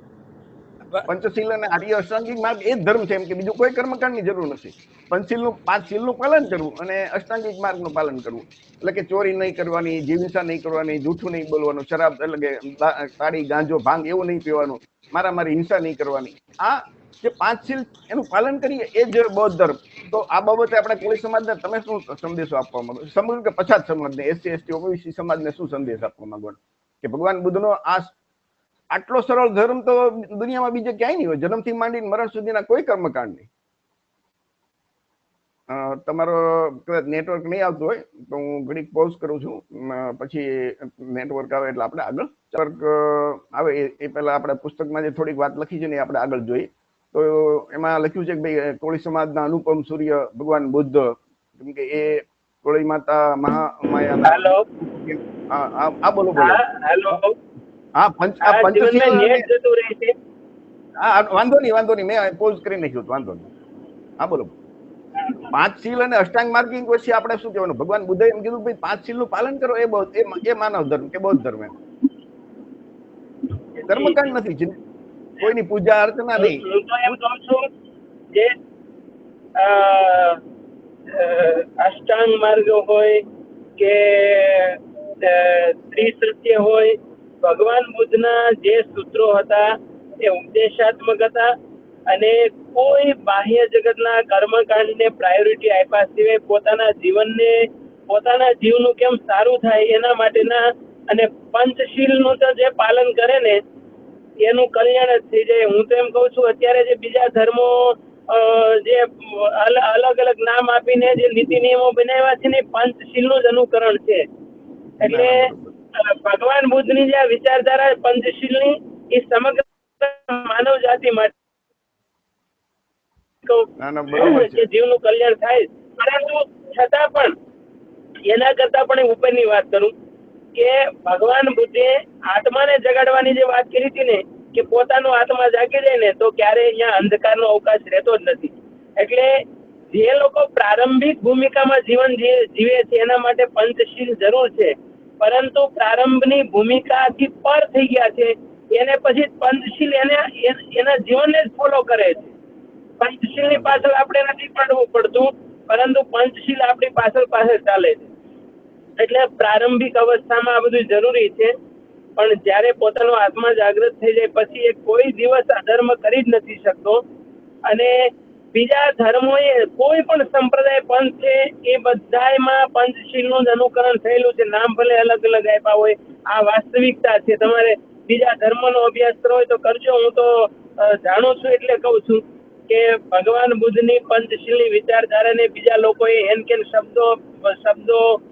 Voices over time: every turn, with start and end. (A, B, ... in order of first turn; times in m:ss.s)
0:01.0-0:28.1 A
0:28.9-0:33.5 A
0:35.7-0:56.6 A
0:54.3-0:54.6 B
0:56.4-0:57.3 B
0:58.0-0:59.5 A
0:58.4-1:00.1 B
1:01.0-1:03.5 A
1:04.2-1:04.5 A
1:05.5-1:11.7 A
1:13.9-1:14.2 B
1:13.9-1:14.7 A
1:15.4-1:16.6 A
1:16.4-1:17.6 B
1:19.6-1:20.4 B
1:21.1-1:23.2 B
1:23.8-1:26.9 B
1:27.4-1:29.6 B
1:30.2-1:31.5 B
1:32.1-1:37.5 B
1:38.1-1:43.6 B
1:44.4-1:54.2 B
1:55.0-1:55.7 A
1:55.0-1:55.4 B
1:56.0-2:01.3 B
2:03.8-2:04.7 A
2:04.1-2:07.3 B
2:08.3-2:09.9 B
2:10.6-2:19.3 B
2:19.9-2:32.3 B
2:33.0-2:38.1 B
2:33.4-2:33.8 A
2:39.0-2:41.5 B
2:42.2-2:47.0 B
2:48.5-3:00.3 B
3:00.8-3:08.0 B